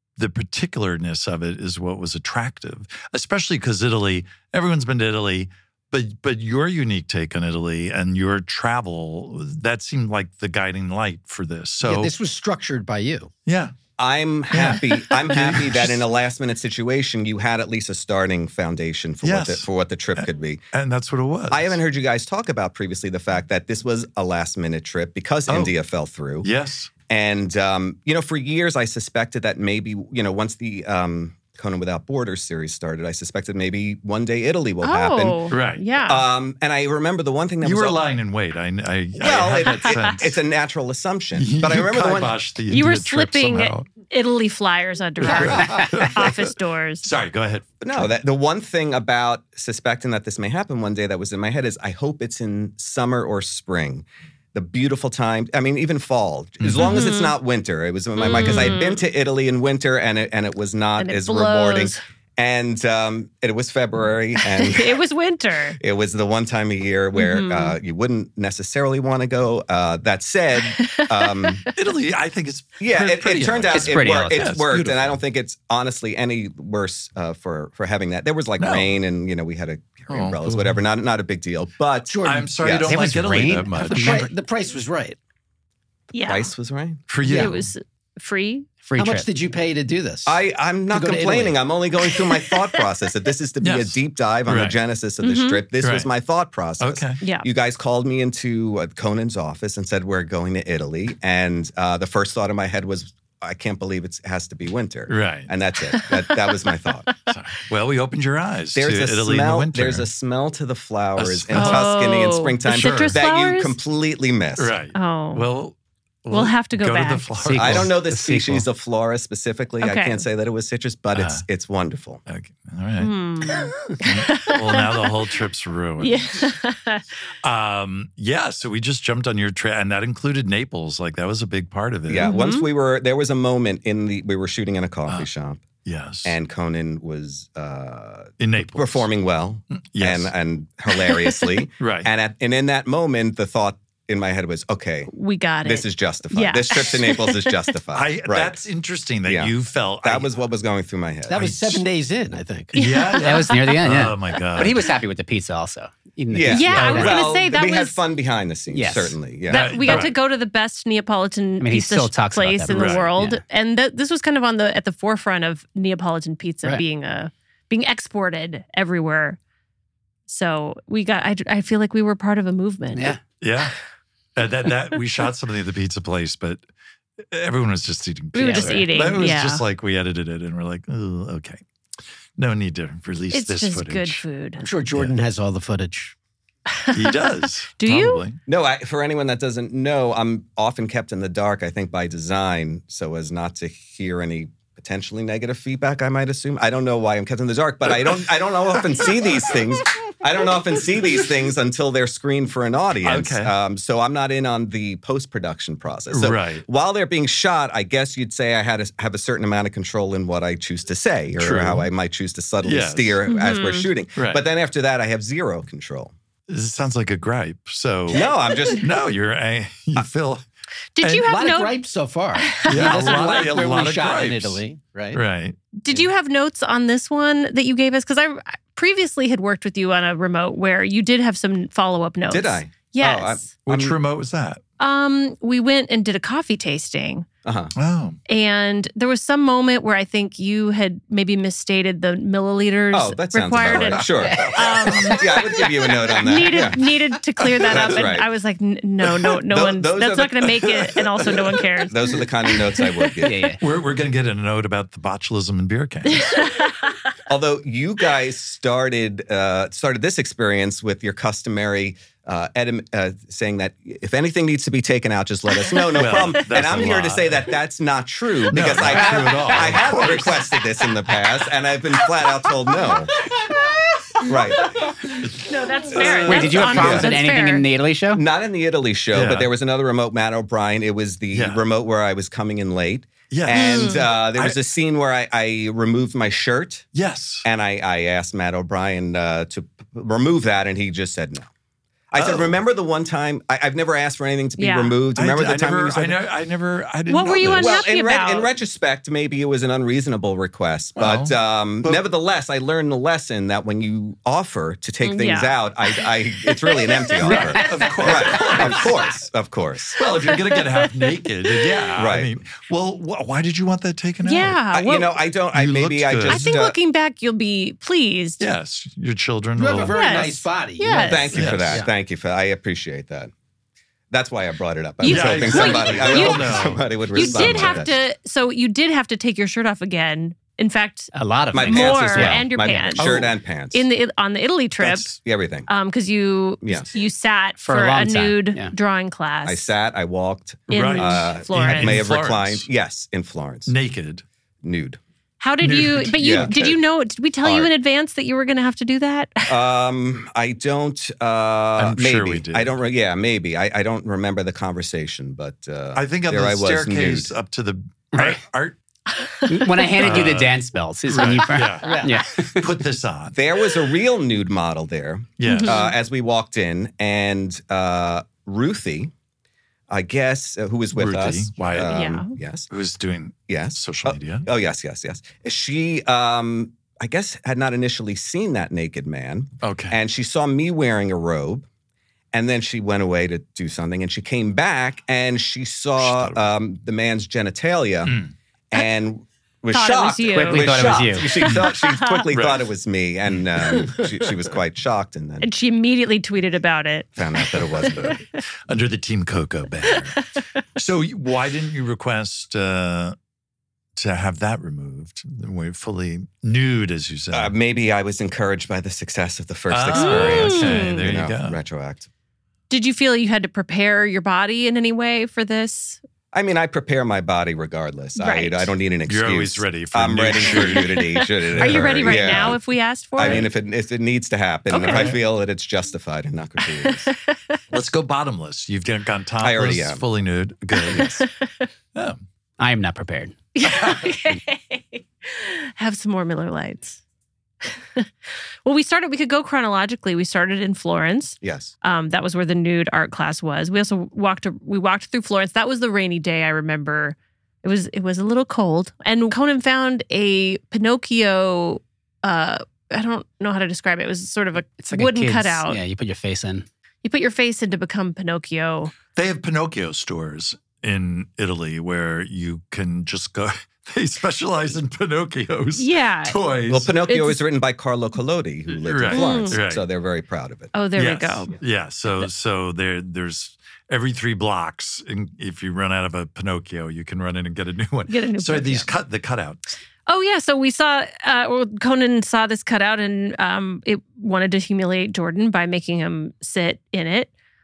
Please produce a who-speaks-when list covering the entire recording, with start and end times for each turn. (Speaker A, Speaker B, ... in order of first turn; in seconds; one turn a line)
Speaker A: 0.2-12.1
Speaker B: 11.8-13.3
Speaker A: 13.5-13.7
Speaker C: 14.0-20.6
Speaker A: 14.5-16.0
Speaker A: 19.2-21.8
Speaker C: 21.5-26.5
Speaker A: 25.5-25.7
Speaker A: 26.4-26.9
Speaker C: 27.1-38.0
Speaker D: 34.8-36.3
Speaker A: 35.5-35.8
Speaker A: 37.6-40.4
Speaker C: 39.2-42.4
Speaker A: 41.4-43.9
Speaker D: 42.7-47.0
Speaker A: 45.2-48.1
Speaker C: 47.8-65.0
Speaker A: 56.6-56.9
Speaker D: 56.8-57.3
Speaker D: 58.2-59.0
Speaker D: 61.0-62.0
Speaker D: 64.4-65.8
Speaker C: 65.8-71.6
Speaker D: 67.2-67.8
Speaker D: 70.7-71.5
Speaker A: 71.8-75.2
Speaker C: 72.8-82.9
Speaker E: 73.7-74.4
Speaker A: 78.6-79.0
Speaker A: 80.1-80.8
Speaker B: 82.1-82.6
Speaker A: 82.2-84.3
Speaker E: 82.8-84.3
Speaker B: 83.9-85.2
Speaker D: 86.1-86.5
Speaker C: 86.2-87.0
Speaker A: 87.1-87.7
Speaker B: 87.2-87.5
Speaker D: 87.3-88.7
Speaker E: 88.8-89.3
Speaker B: 89.0-90.4
Speaker C: 90.3-107.2
Speaker B: 90.9-91.6
Speaker A: 93.6-94.8
Speaker D: 95.2-95.6
Speaker A: 95.8-96.1
Speaker A: 96.8-97.2
Speaker D: 97.2-97.5
Speaker A: 105.1-105.5
Speaker A: 107.3-110.1
Speaker C: 108.8-114.8
Speaker A: 111.2-111.9
Speaker D: 111.5-113.8
Speaker A: 112.7-113.2
Speaker A: 114.6-117.9
Speaker D: 114.9-115.4
Speaker D: 116.3-117.3
Speaker E: 117.4-118.7
Speaker C: 117.5-122.2
Speaker D: 119.8-120.2
Speaker A: 121.1-121.4
Speaker A: 122.3-123.1
Speaker D: 123.0-125.1
Speaker A: 124.0-126.5
Speaker D: 126.0-127.1
Speaker A: 127.4-132.3
Speaker C: 132.1-135.7
Speaker D: 132.2-132.7
Speaker A: 135.8-136.4
Speaker C: 136.2-145.1
Speaker A: 138.4-139.1
Speaker A: 139.7-140.3
Speaker A: 141.8-142.1
Speaker D: 145.1-147.6
Speaker C: 145.6-148.6
Speaker A: 147.9-150.3
Speaker C: 149.2-151.7
Speaker B: 151.3-152.7
Speaker D: 152.7-153.8
Speaker A: 152.7-154.9
Speaker E: 153.2-157.2
Speaker C: 156.3-160.1
Speaker D: 156.5-158.0
Speaker A: 156.8-157.2
Speaker E: 158.7-159.2
Speaker D: 159.5-169.4
Speaker A: 159.5-160.2
Speaker E: 161.6-163.4
Speaker A: 162.7-163.1
Speaker D: 170.3-173.2
Speaker E: 172.9-173.2
Speaker A: 173.4-173.8
Speaker A: 174.4-176.6
Speaker A: 177.3-181.6
Speaker D: 178.3-179.6
Speaker E: 178.4-178.8
Speaker A: 182.4-184.2
Speaker D: 183.3-184.7
Speaker B: 184.6-186.2
Speaker D: 186.8-188.2
Speaker A: 186.9-188.4
Speaker C: 188.5-216.1
Speaker A: 203.0-203.5
Speaker A: 206.1-206.6
Speaker A: 211.4-211.9
Speaker A: 212.6-213.2
Speaker D: 213.3-213.9
Speaker A: 214.2-214.4
Speaker A: 216.5-218.2
Speaker C: 218.1-219.0
Speaker D: 218.2-218.8
Speaker A: 218.8-220.4
Speaker D: 221.0-221.8
Speaker A: 221.0-221.3
Speaker B: 221.2-225.2
Speaker D: 222.5-223.3
Speaker A: 222.7-225.6
Speaker D: 225.8-233.5
Speaker C: 232.3-234.0
Speaker A: 233.7-234.6
Speaker D: 234.8-237.3
Speaker C: 237.4-237.7
Speaker A: 237.8-238.2
Speaker D: 238.3-253.5
Speaker C: 242.9-246.9
Speaker A: 244.4-245.2
Speaker C: 247.7-248.3
Speaker C: 249.5-253.6
Speaker E: 253.2-253.6
Speaker A: 253.6-256.4
Speaker D: 256.1-256.9
Speaker C: 257.3-273.1
Speaker A: 265.9-267.5
Speaker A: 268.5-270.5
Speaker C: 274.2-274.9
Speaker A: 275.1-277.1
Speaker D: 275.4-277.6
Speaker E: 276.0-278.2
Speaker C: 278.1-286.9
Speaker A: 279.1-279.5
Speaker A: 281.3-281.6
Speaker A: 283.3-284.6
Speaker D: 283.5-284.0
Speaker A: 286.9-287.5
Speaker C: 287.4-291.5
Speaker C: 292.1-296.2
Speaker A: 292.1-292.5
Speaker D: 294.6-295.0
Speaker A: 295.2-297.8
Speaker D: 297.1-298.5
Speaker C: 297.2-310.0
Speaker A: 301.0-302.0
Speaker D: 305.0-307.7
Speaker A: 307.2-309.0
Speaker A: 310.0-314.6
Speaker D: 310.8-311.1
Speaker C: 312.0-312.3
Speaker D: 314.2-315.1
Speaker C: 314.7-316.8
Speaker A: 315.5-316.5
Speaker D: 316.3-318.4
Speaker A: 318.4-320.3
Speaker B: 319.6-321.9
Speaker D: 319.9-321.3
Speaker C: 321.0-323.3
Speaker A: 321.4-321.8
Speaker C: 324.1-328.0
Speaker D: 325.0-333.1
Speaker A: 325.0-327.8
Speaker E: 331.1-333.3
Speaker C: 331.5-333.9
Speaker D: 333.7-335.2
Speaker A: 334.8-335.1
Speaker C: 335.0-335.7
Speaker D: 335.7-339.7
Speaker C: 336.6-336.9
Speaker E: 337.6-338.7
Speaker C: 339.4-343.8
Speaker D: 340.7-342.0
Speaker A: 340.7-342.6
Speaker A: 343.7-344.2
Speaker C: 344.6-345.0
Speaker D: 345.4-349.5
Speaker A: 345.6-346.5
Speaker C: 346.1-346.8
Speaker C: 347.4-347.7
Speaker C: 349.5-357.3
Speaker A: 351.8-352.7
Speaker A: 355.9-358.8
Speaker E: 358.1-358.4
Speaker E: 359.5-362.7
Speaker A: 360.0-363.4
Speaker B: 361.8-362.2
Speaker C: 363.3-369.1
Speaker A: 365.4-365.9
Speaker D: 365.4-365.9
Speaker C: 369.9-372.7
Speaker A: 370.9-371.9
Speaker D: 371.9-372.3
Speaker A: 372.7-374.5
Speaker C: 373.5-381.7
Speaker A: 379.6-380.0
Speaker C: 382.3-388.2
Speaker A: 386.0-386.4
Speaker A: 388.1-388.3
Speaker C: 388.7-395.5
Speaker D: 389.7-392.2
Speaker E: 390.4-391.3
Speaker A: 392.3-392.6
Speaker D: 395.4-398.2
Speaker C: 397.2-398.2
Speaker A: 398.7-403.2
Speaker D: 399.9-400.4
Speaker A: 404.0-407.5
Speaker C: 407.3-412.1
Speaker A: 409.7-411.6
Speaker D: 409.9-411.0
Speaker D: 412.7-416.0
Speaker C: 416.3-422.6
Speaker D: 418.2-418.7
Speaker A: 419.1-421.0
Speaker D: 420.6-423.5
Speaker A: 421.5-422.5
Speaker C: 423.1-427.1
Speaker A: 423.2-423.4
Speaker D: 424.7-425.2
Speaker A: 424.8-425.2
Speaker D: 426.8-427.6
Speaker A: 427.7-431.3
Speaker C: 429.4-430.0
Speaker D: 430.8-431.7
Speaker A: 431.9-432.2
Speaker E: 432.6-433.4
Speaker D: 433.6-437.0
Speaker A: 433.6-434.0
Speaker D: 437.7-438.1
Speaker D: 438.6-455.8
Speaker C: 441.4-441.7
Speaker E: 454.8-456.7
Speaker D: 457.0-458.9
Speaker A: 459.1-466.9
Speaker D: 465.8-466.4
Speaker C: 466.7-470.7
Speaker D: 467.1-467.4
Speaker A: 468.8-469.9
Speaker D: 469.1-469.6
Speaker D: 470.7-471.5
Speaker A: 471.0-479.6
Speaker D: 478.1-478.9
Speaker D: 480.1-487.3